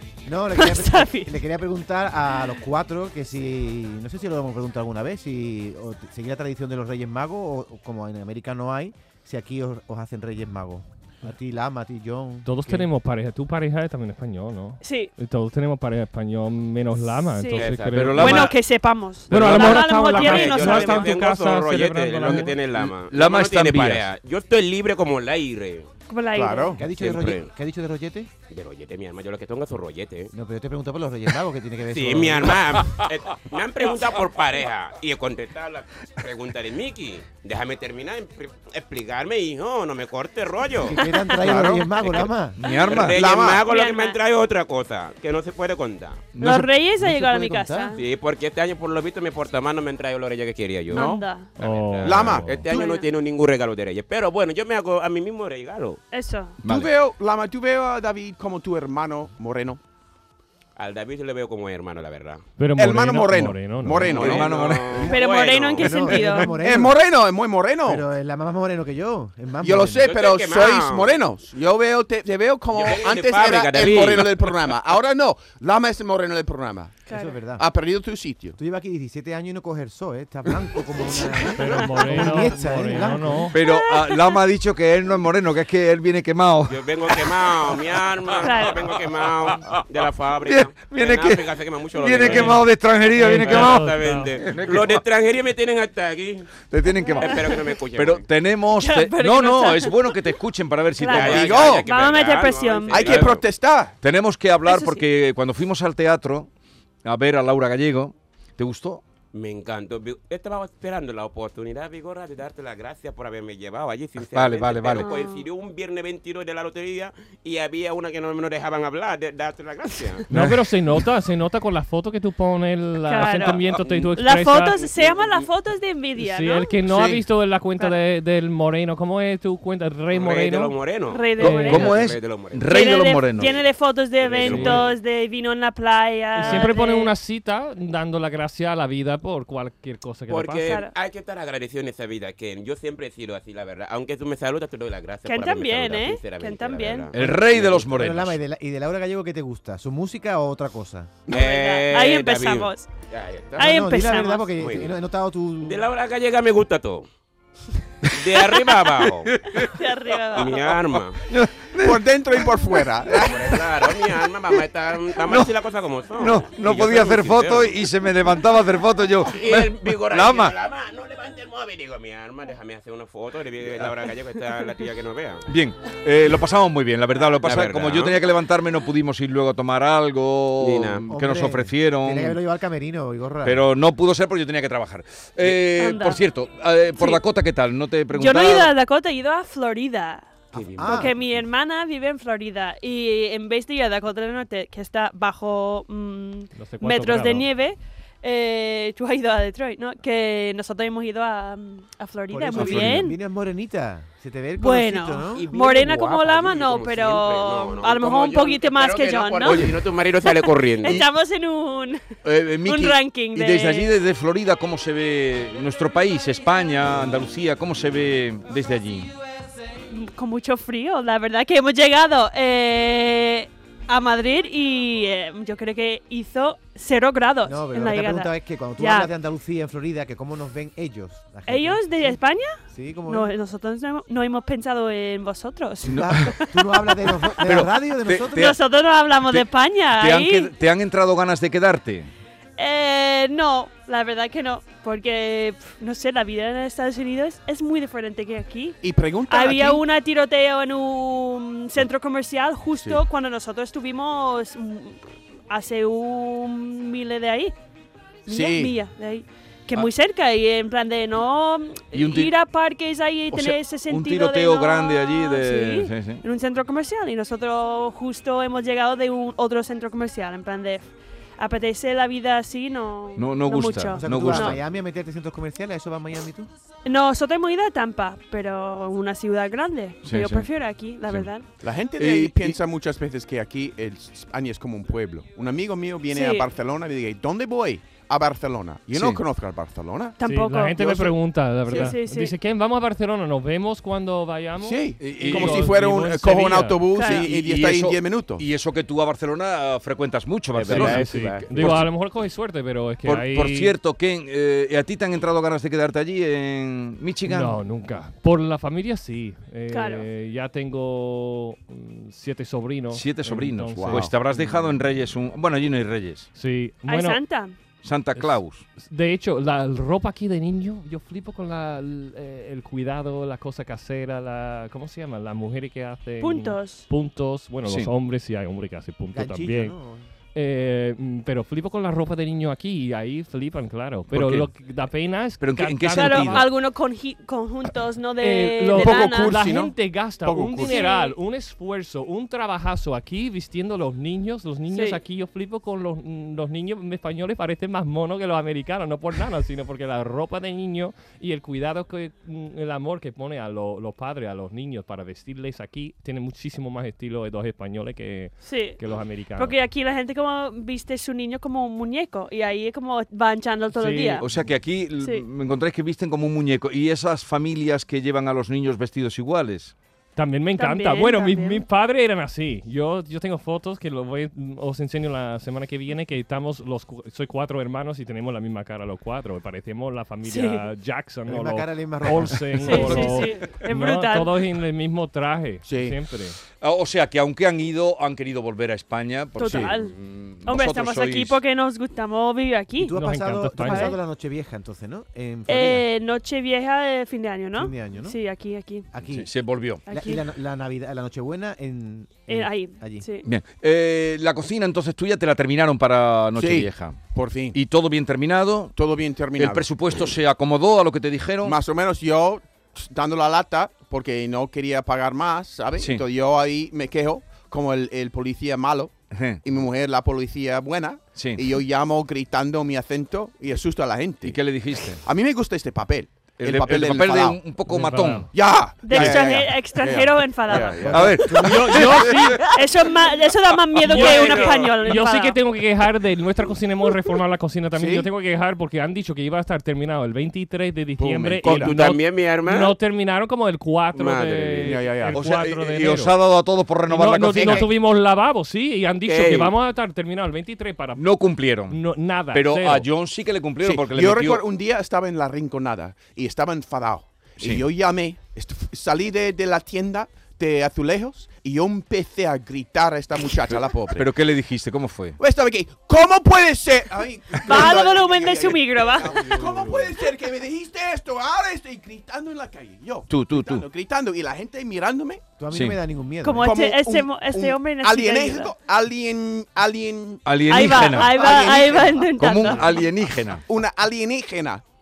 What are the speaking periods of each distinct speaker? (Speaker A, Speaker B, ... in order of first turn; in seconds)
Speaker A: 0.2-12.8, 26.7-28.3, 30.3-32.6, 40.8-42.6, 47.0-47.9, 65.8-67.0, 67.8-70.1, 77.1-77.6, 78.6-83.5, 147.2-151.2, 153.6-155.9, 181.1-183.6, 190.8-191.1, 202.3-205.4, 227.4-233.3, 235.8-238.6, 273.9-276.5, 329.1-330.1, 381.3-383.1, 392.8-395.8, 397.5-398.2, 398.9-399.3, 399.9-403.1, 430.8-431.8, 475.4-476.5
Speaker B: 0.5-1.4, 14.8-15.1, 17.3-21.2, 26.1-26.8, 41.0-41.4, 42.6-43.1, 43.6-44.2, 46.4-48.0, 50.9-51.5, 52.7-53.1, 56.1-56.6, 65.0-66.6, 77.1-77.4, 81.2-82.3, 83.5-84.4, 88.4-88.8, 96.9-97.5, 98.7-100.4, 100.9-103.2, 104.6-105.0, 114.9-115.4, 123.1-126.8, 131.1-132.0, 132.7-137.1, 140.7-140.9, 145.2-147.2, 151.3-152.9, 153.6-154.5, 159.6-160.7, 185.4-186.2, 186.9-187.2, 188.1-203.2, 204.6-213.9, 219.9-229.1, 231.5-237.3, 238.3-240.5, 242.6-257.5, 258.3-274.6, 276.8-281.6, 286.1-286.5, 290.2-290.8, 291.7-292.3, 296.9-297.3, 309.7-310.1, 316.9-317.6, 326.2-326.9, 335.9-339.4, 340.6-341.1, 344.7-345.0, 358.4-358.8, 359.4-364.3, 364.9-365.2, 370.6-371.6, 380.2-380.6, 382.6-384.3, 389.4-392.9, 393.6-394.0, 395.5-398.9, 399.9-400.2, 402.3-403.3, 428.8-431.0, 432.4-435.4, 467.4-469.4, 476.2-478.5, 480.4-482.8
Speaker C: 12.4-18.5, 19.3-22.6, 51.5-52.7, 62.6-64.2, 81.4-83.5, 92.2-94.3, 120.3-124.8, 126.2-130.7, 131.4-131.7, 134.4-134.8, 136.3-140.7, 196.5-197.5, 290.2-296.8, 300.7-303.7, 307.2-314.8, 316.3-317.2, 318.1-329.7, 330.3-336.5, 338.2-359.6, 363.7-364.2, 370.1-386.4, 392.9-394.0, 427.7-428.3, 431.3-432.4, 433.8-446.1, 446.9-451.1, 451.6-452.9
Speaker D: 17.6-18.4, 19.3-25.9, 27.0-27.5, 28.5-30.3, 31.9-41.0, 42.0-42.3, 42.9-46.3, 48.0-56.0, 60.8-62.4, 64.0-66.1, 70.0-71.2, 72.7-74.6, 86.7-92.8, 93.3-96.5, 97.2-98.3, 101.0-103.4, 109.3-120.2, 124.7-125.5, 130.1-133.7, 134.2-135.0, 140.3-147.8, 151.3-153.8, 154.6-154.9, 155.6-157.1, 158.1-159.3, 160.3-161.2, 163.1-167.9, 169.3-175.4, 177.4-178.2, 180.6-181.1, 190.5-191.4, 205.3-211.1, 300.5-301.8, 433.9-434.8, 441.4-442.7, 443.9-444.8, 449.1-449.5
Speaker E: 17.9-18.6, 19.3-19.6, 22.7-24.1, 42.6-43.2, 46.4-46.7, 56.6-56.9, 64.2-65.1, 83.5-87.3, 89.5-89.8, 90.5-95.0, 96.7-101.6, 104.0-106.5, 107.0-109.0, 114.2-115.1, 120.3-120.6, 126.8-127.2, 131.4-133.5, 147.1-148.3, 159.3-159.7, 161.3-162.7, 165.2-165.5, 166.2-170.6, 175.5-182.4, 183.4-188.7, 202.6-203.0, 212.2-219.1, 235.9-236.2, 237.4-238.6, 239.3-242.1, 261.9-262.3, 263.3-266.2, 273.1-274.6, 280.0-280.5, 281.1-281.3, 281.9-282.6, 288.9-289.2, 295.0-295.8, 297.1-301.9, 303.0-307.6, 312.9-316.3, 317.8-318.6, 334.1-334.5, 335.4-336.5, 364.2-369.7, 386.6-391.4, 399.0-399.8, 403.2-407.0, 407.5-408.7, 409.4-411.6, 415.8-416.0, 419.1-419.4, 421.1-421.4, 424.2-425.0, 426.4-428.3, 428.9-429.2, 430.9-432.4, 445.1-447.7, 450.9-451.8, 452.3-454.4, 457.4-457.6, 463.9-465.2, 473.1-473.6, 475.5-475.8, 480.2-481.4, 482.1-483.4
Speaker F: 26.3-26.8, 41.4-41.9, 43.1-43.6, 50.9-51.2, 52.0-52.8, 56.6-59.8, 62.8-65.1, 66.6-68.0, 69.6-77.0, 77.5-78.6, 101.2-101.9, 102.9-103.9, 161.8-163.6, 248.8-249.8, 258.3-258.7, 281.6-290.2, 290.8-291.1, 291.7-291.9, 294.6-298.4, 313.8-314.1, 338.7-340.8, 385.6-386.0, 389.4-389.7, 406.3-407.6, 408.8-410.1, 411.4-424.5, 425.0-427.4, 428.3-431.4, 434.2-434.5, 437.7-438.1, 441.0-441.8, 444.6-445.2, 447.4-447.6, 453.6-464.1, 465.2-475.2, 476.4-482.8, 483.4-484.6